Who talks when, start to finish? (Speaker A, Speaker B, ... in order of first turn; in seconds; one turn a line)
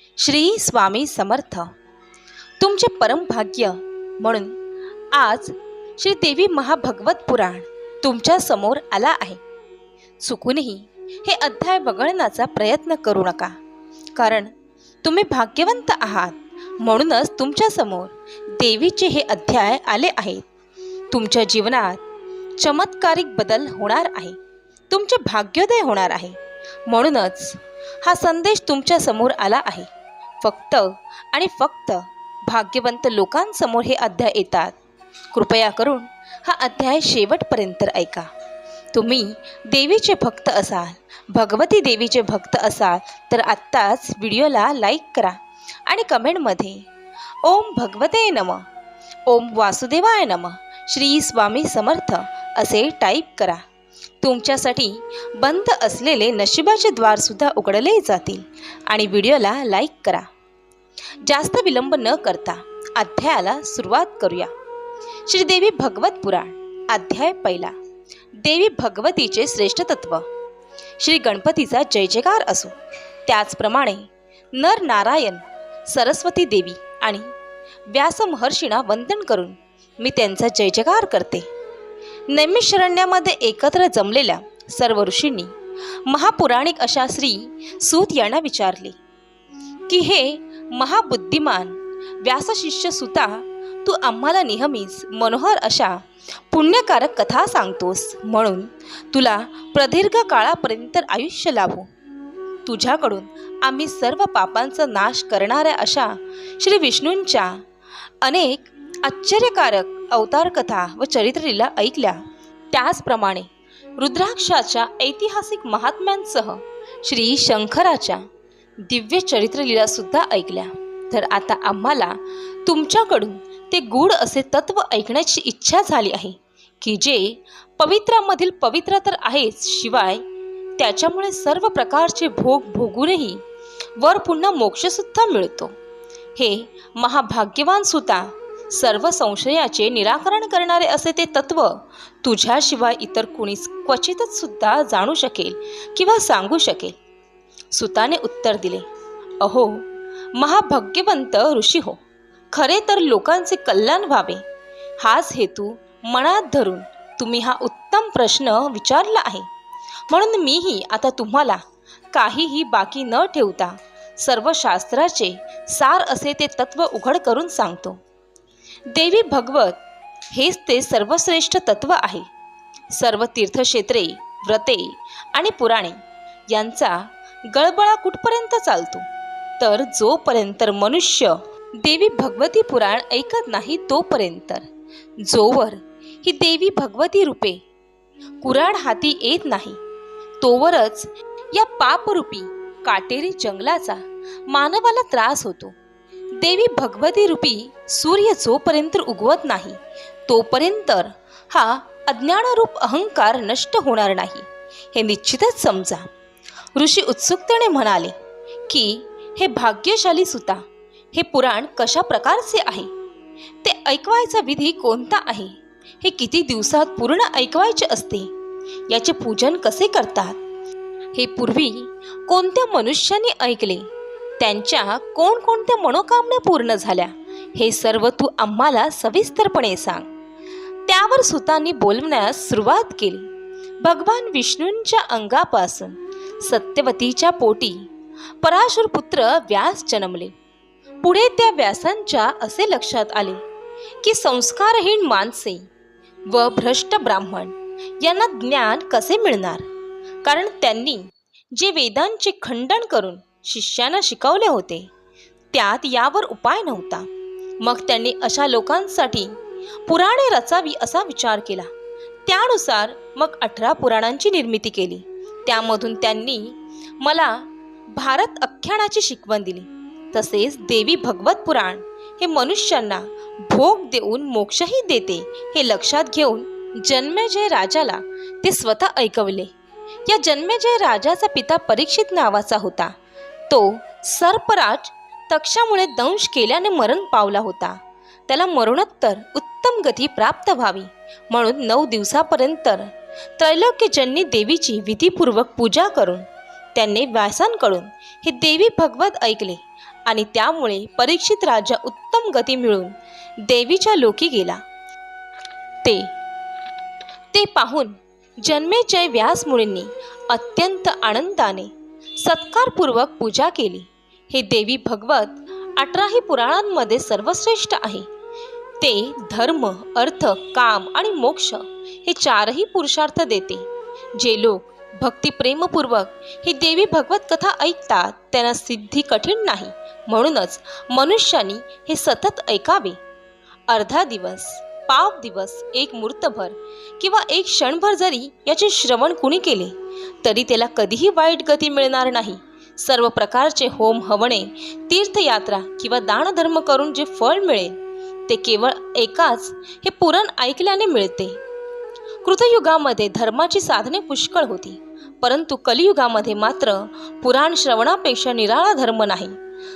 Speaker A: 0.2-1.7
Speaker A: 2.6-4.5
Speaker A: 5.1-9.4
Speaker A: 10.2-13.5
Speaker A: 14.2-14.5
Speaker A: 15.0-20.4
Speaker A: 21.1-22.0
Speaker A: 22.6-24.4
Speaker A: 24.9-26.4
Speaker A: 26.9-29.9
Speaker A: 30.4-34.7
Speaker A: 35.3-38.3
Speaker A: 38.9-46.9
Speaker A: 47.4-48.6
Speaker A: 49.3-53.6
Speaker A: 54.2-60.3
Speaker A: 61.2-64.5
Speaker A: 65.2-67.7
Speaker A: 68.4-70.2
Speaker A: 71.0-72.7
Speaker A: 73.3-77.3
Speaker A: 77.9-81.5
Speaker A: 82.3-85.5
Speaker A: 86.0-89.0
Speaker A: 89.9-96.0
Speaker A: 96.5-101.9
Speaker A: 102.6-107.6
Speaker A: 108.2-112.2
Speaker A: 112.7-118.2
Speaker A: 118.8-130.2
Speaker A: 130.8-133.4
Speaker A: 134.0-135.7
Speaker A: 136.4-146.9
Speaker A: 147.7-148.8
Speaker A: 149.4-149.8
Speaker A: 150.3-152.0
Speaker A: 152.5-154.4
Speaker A: 155.0-159.5
Speaker A: 160.1-161.6
Speaker A: 162.1-168.0
Speaker A: 168.9-172.3
Speaker A: 172.9-175.9
Speaker A: 176.5-179.0
Speaker A: 179.6-184.7
Speaker A: 185.2-187.6
Speaker A: 188.4-189.8
Speaker A: 190.4-195.8
Speaker A: 196.3-206.1
Speaker A: 206.8-208.1
Speaker A: 208.7-210.6
Speaker A: 211.1-212.9
Speaker A: 213.6-218.3
Speaker A: 218.9-220.3
Speaker A: 221.1-223.9
Speaker A: 224.4-230.1
Speaker A: 230.9-233.3
Speaker A: 233.8-237.8
Speaker A: 238.4-240.3
Speaker A: 241.0-243.4
Speaker A: 244.0-245.7
Speaker A: 246.3-249.6
Speaker A: 250.2-254.9
Speaker A: 255.5-257.1
Speaker A: 257.6-259.3
Speaker A: 259.9-261.7
Speaker A: 262.2-279.5
Speaker A: 280.1-282.9
Speaker A: 283.5-302.9
Speaker A: 303.5-304.6
Speaker A: 305.8-306.1
Speaker A: 307.3-311.7
Speaker A: 312.2-318.1
Speaker A: 318.8-333.0
Speaker A: 333.7-347.8
Speaker A: 348.3-351.4
Speaker A: 352.2-359.4